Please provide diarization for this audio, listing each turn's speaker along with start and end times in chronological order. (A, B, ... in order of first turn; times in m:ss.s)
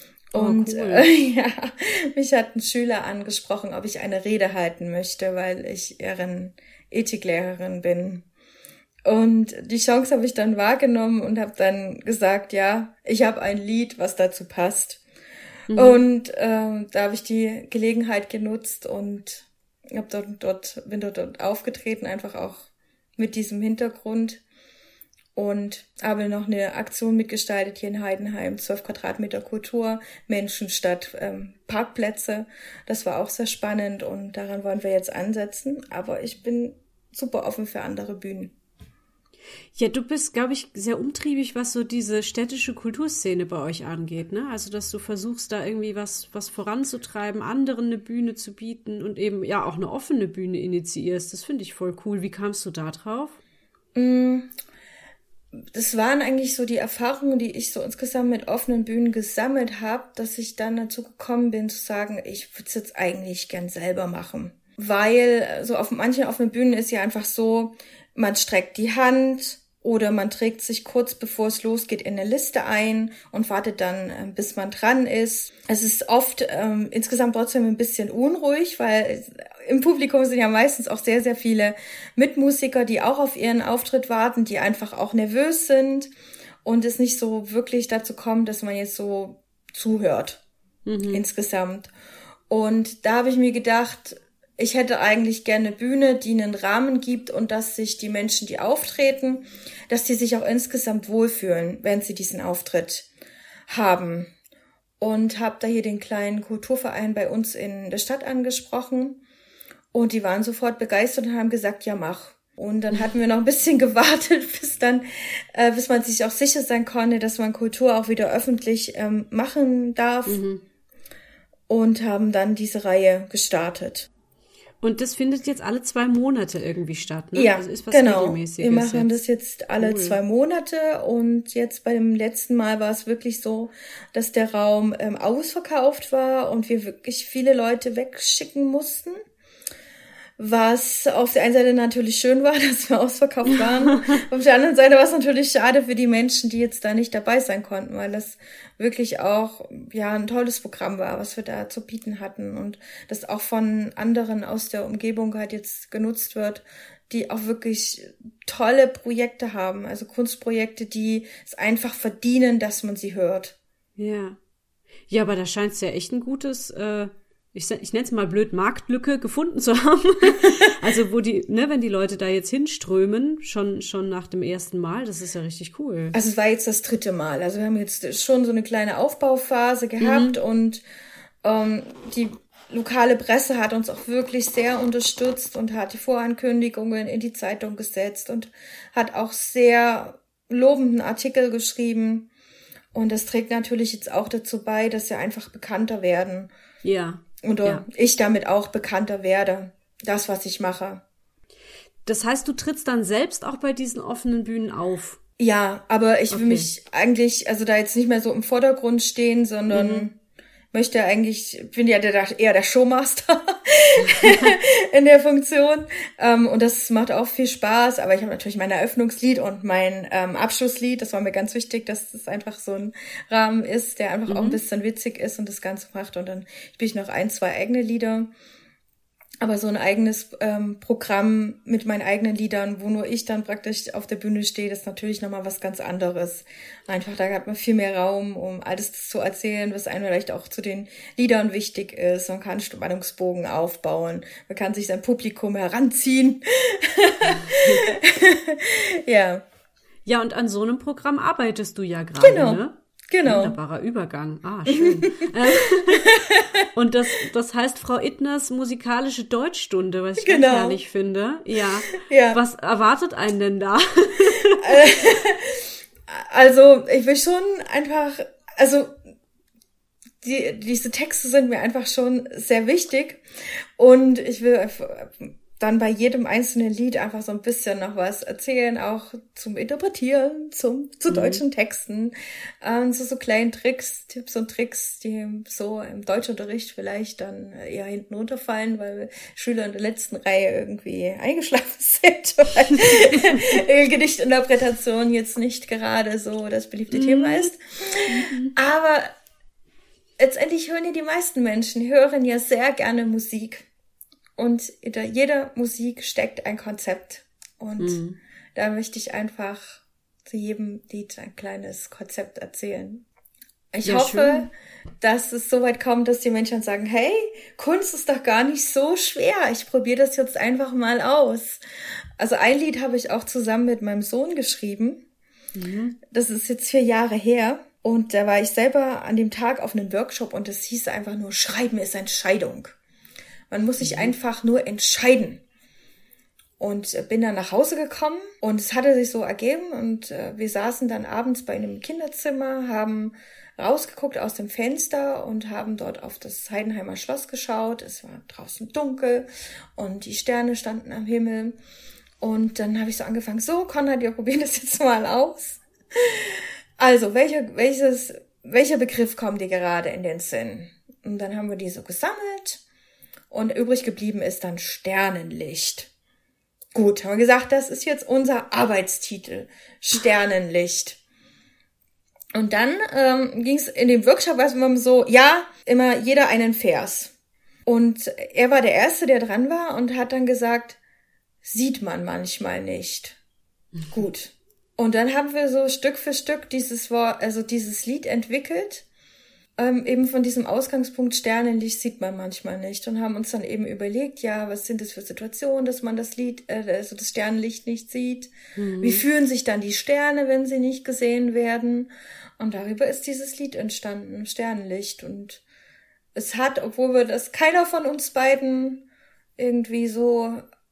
0:00.3-0:08.2 A
0:00.4-0:01.1 B
0:09.1-0:15.0 A
0:15.7-0:16.0 B
0:15.8-0:24.4 A
0:25.4-0:38.5 A
0:39.8-0:53.4 B
0:54.0-0:54.5 A
0:55.7-1:26.1 A
1:26.6-1:30.4 A
1:30.9-1:31.2 B
1:31.1-1:31.9 A
1:32.5-1:43.1 A
1:43.7-1:44.3 A
1:45.0-1:49.2 A
1:49.9-2:00.4 A
2:00.3-2:00.6 B
2:01.7-2:04.1 A
2:04.8-2:09.2 B
2:07.4-2:19.2 A
2:09.8-2:10.2 B
2:20.4-2:43.6 A
2:44.0-2:44.4 B
2:45.1-2:56.2 B
2:56.1-3:00.8 A
3:00.0-3:00.4 B
3:01.4-3:12.3 A
3:12.9-3:16.5 A
3:16.8-3:17.8 B
3:17.4-3:21.0 A
3:22.1-3:25.2 B
3:25.4-3:30.2 A
3:26.3-3:26.7 B
3:29.7-3:30.1 B
3:30.7-3:48.3 A
3:34.0-3:34.5 B
3:44.3-3:44.6 B
3:49.4-4:09.4 A
4:07.3-4:07.8 B
4:10.1-4:24.6 B
4:12.2-4:13.6 A
4:14.7-4:16.5 A
4:20.2-4:20.8 A
4:21.9-4:22.4 A
4:24.6-4:29.0 A
4:30.2-4:33.2 A
4:33.8-4:59.1 A
4:41.1-4:41.4 B
4:52.9-4:53.4 B
4:56.9-4:57.5 B
4:58.1-4:58.5 B
5:00.2-5:03.7 A
5:04.4-5:08.0 A
5:07.8-5:08.2 B
5:08.6-5:13.0 A
5:13.7-5:21.6 A
5:13.8-5:14.5 B
5:22.2-5:25.0 A
5:25.6-5:26.0 B
5:26.1-5:32.8 A
5:33.5-5:35.4 A
5:33.8-5:34.1 B
5:36.6-5:51.6 A
5:52.2-6:02.6 A
6:03.3-6:05.9 A
6:06.7-6:11.0 A
6:12.4-6:17.1 A
6:17.7-6:20.8 A
6:21.4-6:23.2 A
6:23.9-6:28.9 A
6:29.6-6:45.4 A
6:38.6-6:39.0 B
6:46.2-6:48.8 A
6:49.4-6:50.4 A